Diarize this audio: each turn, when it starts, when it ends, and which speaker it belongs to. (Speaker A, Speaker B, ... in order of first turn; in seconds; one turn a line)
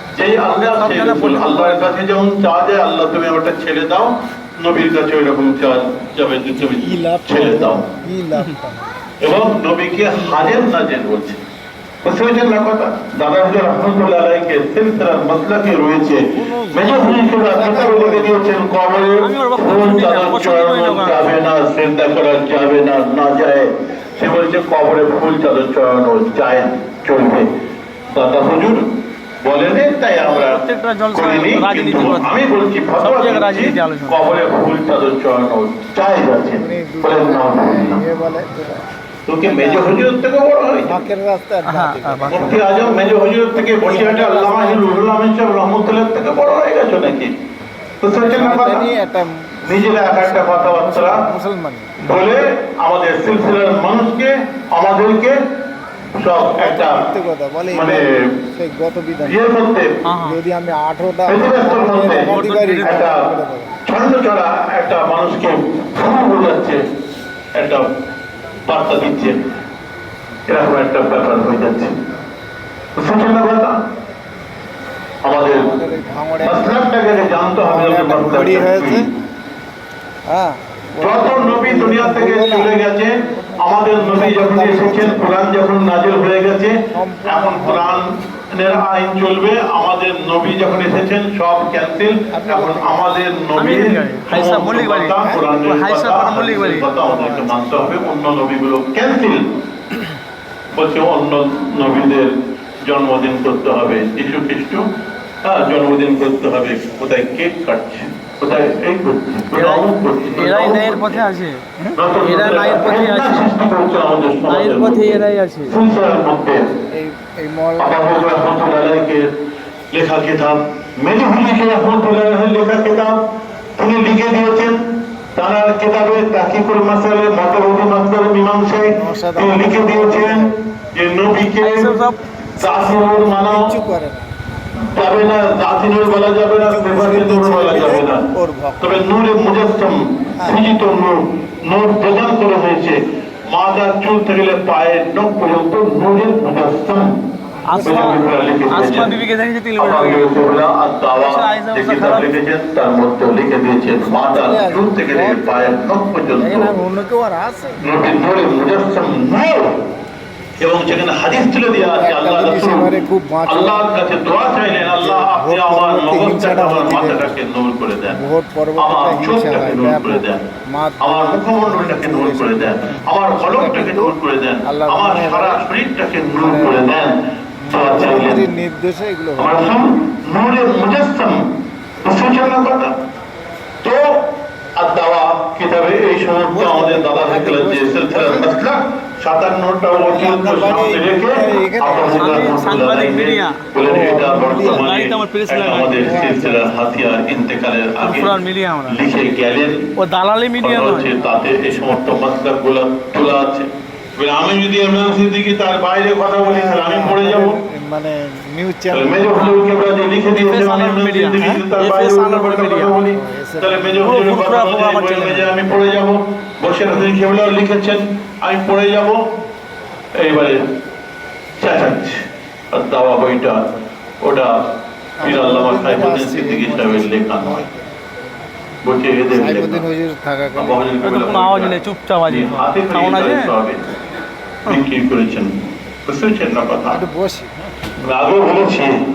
Speaker A: 0.1-7.8
Speaker B: 0.7-1.9
Speaker C: 6.8-8.9
Speaker A: 9.2-11.4
Speaker C: 10.1-10.4
Speaker A: 12.0-27.4
Speaker C: 16.3-18.4
Speaker B: 19.2-21.3
Speaker A: 28.1-28.9
Speaker A: 29.4-38.0
Speaker B: 30.2-32.4
Speaker B: 33.0-34.4
Speaker C: 36.6-38.8
Speaker A: 39.3-41.0
Speaker C: 39.4-40.0
Speaker C: 40.9-45.1
Speaker B: 41.6-42.6
Speaker A: 42.2-47.3
Speaker A: 48.0-48.9
Speaker C: 48.1-51.9
Speaker A: 49.6-51.2
Speaker A: 52.0-55.4
Speaker A: 56.2-57.0
Speaker C: 56.4-59.4
Speaker A: 57.7-58.1
Speaker A: 59.2-59.9
Speaker B: 60.0-60.4
Speaker C: 60.2-63.8
Speaker A: 61.3-63.2
Speaker B: 62.2-63.0
Speaker A: 63.9-66.8
Speaker A: 67.5-67.8
Speaker A: 68.7-69.4
Speaker A: 70.5-71.9
Speaker A: 73.0-73.7
Speaker A: 75.2-75.7
Speaker C: 75.4-76.9
Speaker A: 76.4-79.0
Speaker C: 77.5-79.1
Speaker C: 80.3-85.3
Speaker A: 81.0-99.4
Speaker C: 86.9-88.0
Speaker C: 92.3-93.1
Speaker B: 93.6-96.9
Speaker C: 95.2-95.5
Speaker C: 96.3-98.0
Speaker A: 100.7-104.9
Speaker A: 105.4-111.2
Speaker B: 109.5-111.6
Speaker A: 111.9-116.6
Speaker B: 112.2-113.5
Speaker B: 114.5-115.7
Speaker C: 116.9-118.6
Speaker A: 117.8-119.2
Speaker A: 119.9-123.2
Speaker A: 123.8-124.8
Speaker A: 125.3-131.9
Speaker C: 128.9-130.5
Speaker B: 131.6-132.2
Speaker A: 132.6-133.6
Speaker C: 132.7-134.3
Speaker A: 134.9-138.2
Speaker C: 135.8-139.1
Speaker A: 138.8-147.1
Speaker C: 140.4-140.7
Speaker B: 147.7-150.4
Speaker C: 147.7-148.2
Speaker A: 147.8-149.1
Speaker A: 149.8-156.8
Speaker B: 151.2-152.3
Speaker C: 154.0-155.7
Speaker C: 156.4-157.9
Speaker A: 157.8-159.6
Speaker A: 160.6-162.9
Speaker C: 161.7-163.9
Speaker A: 163.4-168.2
Speaker C: 164.6-167.4
Speaker C: 168.1-175.6
Speaker A: 168.8-170.4
Speaker A: 171.0-177.1
Speaker C: 176.1-176.9
Speaker C: 177.6-179.8
Speaker A: 177.7-178.4
Speaker A: 179.4-181.4
Speaker A: 182.0-182.9
Speaker A: 184.8-198.3
Speaker C: 186.5-188.5
Speaker C: 190.1-192.5
Speaker B: 192.2-193.6
Speaker C: 193.8-194.8
Speaker B: 194.5-196.2
Speaker C: 196.0-196.9
Speaker B: 198.0-199.0
Speaker A: 198.9-199.8
Speaker B: 200.0-201.1
Speaker A: 200.6-207.6
Speaker C: 201.2-201.7
Speaker C: 206.4-209.3
Speaker A: 208.9-219.2
Speaker B: 209.3-209.6
Speaker B: 210.3-213.0
Speaker C: 213.1-214.1
Speaker B: 214.0-215.5
Speaker A: 220.2-220.6
Speaker A: 221.6-222.2
Speaker A: 222.7-224.5
Speaker C: 225.2-227.9
Speaker A: 225.2-227.6
Speaker A: 228.8-229.8
Speaker C: 229.3-230.8
Speaker A: 230.5-233.8
Speaker B: 231.0-233.5
Speaker A: 234.7-235.5
Speaker A: 236.0-237.0
Speaker C: 236.9-237.7
Speaker A: 238.1-238.9